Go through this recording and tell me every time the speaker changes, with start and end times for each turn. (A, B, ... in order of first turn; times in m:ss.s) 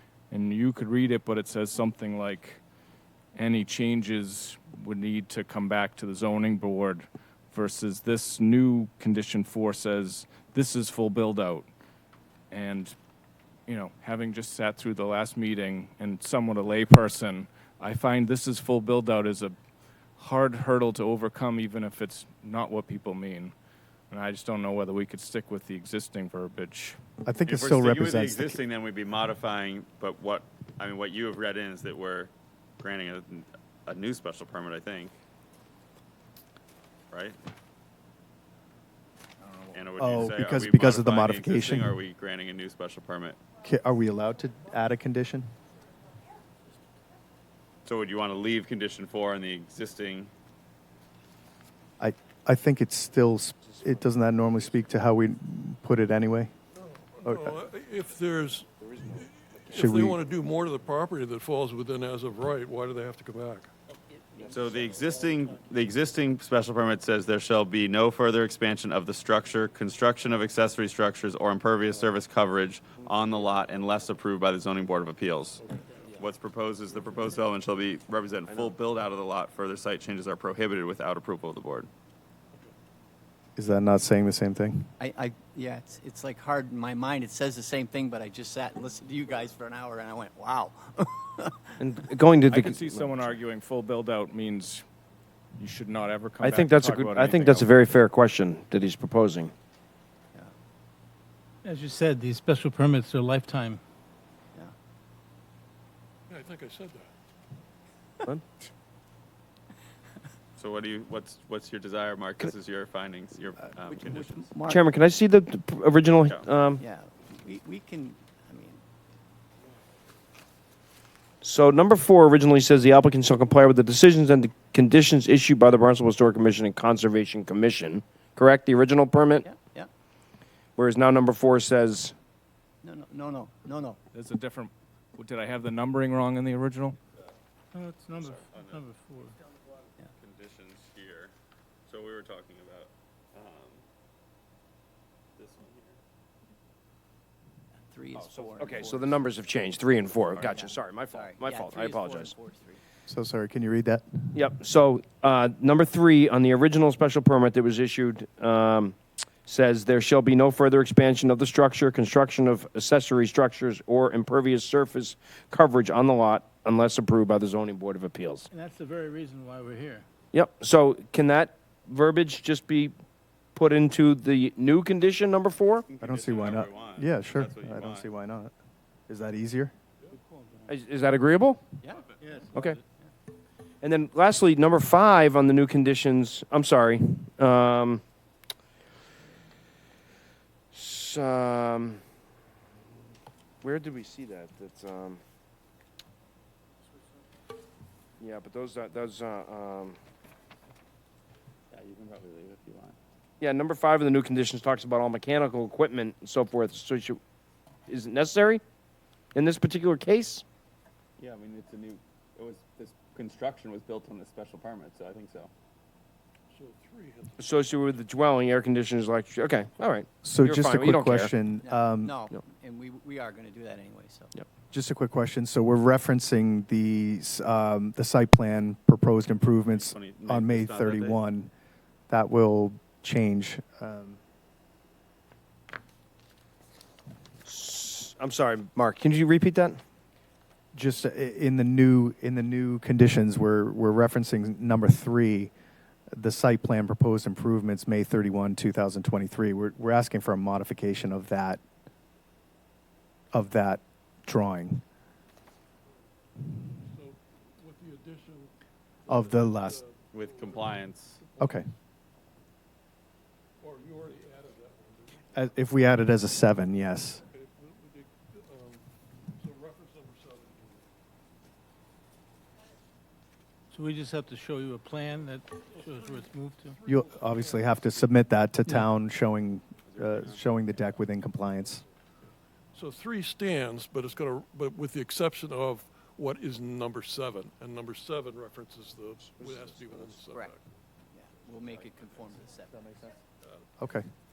0:00.3-0:02.6 A
0:03.3-0:11.7 A
0:12.5-0:13.0 A
0:13.7-0:19.6 A
0:20.2-0:23.5 A
0:24.1-0:27.0 A
0:27.2-0:28.6 B
0:27.4-0:35.1 C
0:37.1-0:37.4 C
0:39.7-0:43.4 C
0:40.0-0:42.0 B
0:43.6-0:45.5 B
0:47.8-0:50.3 C
0:52.0-0:56.5 B
0:53.7-0:54.5 D
0:56.7-1:03.7 E
0:57.2-0:57.5 B
0:58.8-0:59.3 D
0:59.7-1:00.2 B
1:04.5-1:21.9 C
1:15.7-1:16.0 E
1:18.5-1:18.7 D
1:23.6-1:24.9 B
1:25.0-1:31.8 F
1:31.8-1:33.2 D
1:32.5-1:34.9 A
1:35.6-1:37.7 A
1:36.4-1:39.5 D
1:41.6-1:43.8 G
1:46.3-1:47.1 E
1:50.6-1:54.5 C
1:53.9-1:54.9 F
1:54.7-1:56.8 D
1:56.2-1:56.5 C
1:56.8-1:58.8 F
2:01.4-2:09.5 D
2:09.4-2:09.9 F
2:10.8-2:12.2 D
2:12.8-2:14.0 F
2:14.1-2:17.0 A
2:17.7-2:19.4 G
2:18.2-2:18.9 C
2:20.2-2:21.3 C
2:21.9-2:23.8 C
2:25.4-2:26.0 C
2:27.8-2:29.3 F
2:28.1-2:32.3 D
2:30.3-2:32.8 F
2:33.1-2:34.4 B
2:34.3-2:48.5 D
2:48.5-2:50.1 G
2:50.3-2:53.0 D
2:53.6-2:55.9 D
2:55.8-2:58.1 C
2:56.0-2:58.5 B
2:59.1-2:59.7 B
3:00.1-3:00.7 G
3:00.7-3:01.8 D
3:01.8-3:02.2 F
3:02.2-3:02.8 G
3:02.5-3:02.8 D
3:03.8-3:08.0 D
3:10.7-3:12.0 D
3:13.6-3:15.2 D
3:18.2-3:20.0 D
3:21.7-3:23.0 C
3:23.4-3:27.2 D
3:27.9-3:28.6 D
3:29.3-3:30.4 D
3:31.2-3:35.5 C
3:36.5-3:38.0 E
3:37.4-3:41.3 D
3:40.2-3:42.2 B
3:41.6-3:44.4 F
3:44.7-3:51.5 B
3:49.7-3:51.2 C
3:52.1-3:54.2 B
3:57.4-3:59.8 D
4:00.7-4:05.5 B
4:06.1-4:11.6 B
4:13.3-4:14.8 B
4:15.9-4:21.6 E
4:19.1-4:19.8 B
4:20.1-4:21.2 C
4:21.4-4:21.7 B
4:23.6-4:25.6 E
4:25.3-4:27.2 B
4:27.3-4:30.9 E
4:33.7-4:36.8 G
4:35.2-4:38.4 E
4:36.8-4:41.8 B
4:39.9-4:40.6 C
4:41.6-4:41.9 E
4:42.7-4:50.6 E
4:49.4-4:50.0 D
4:51.1-4:53.1 F
4:52.7-4:53.1 B
4:53.8-4:54.1 B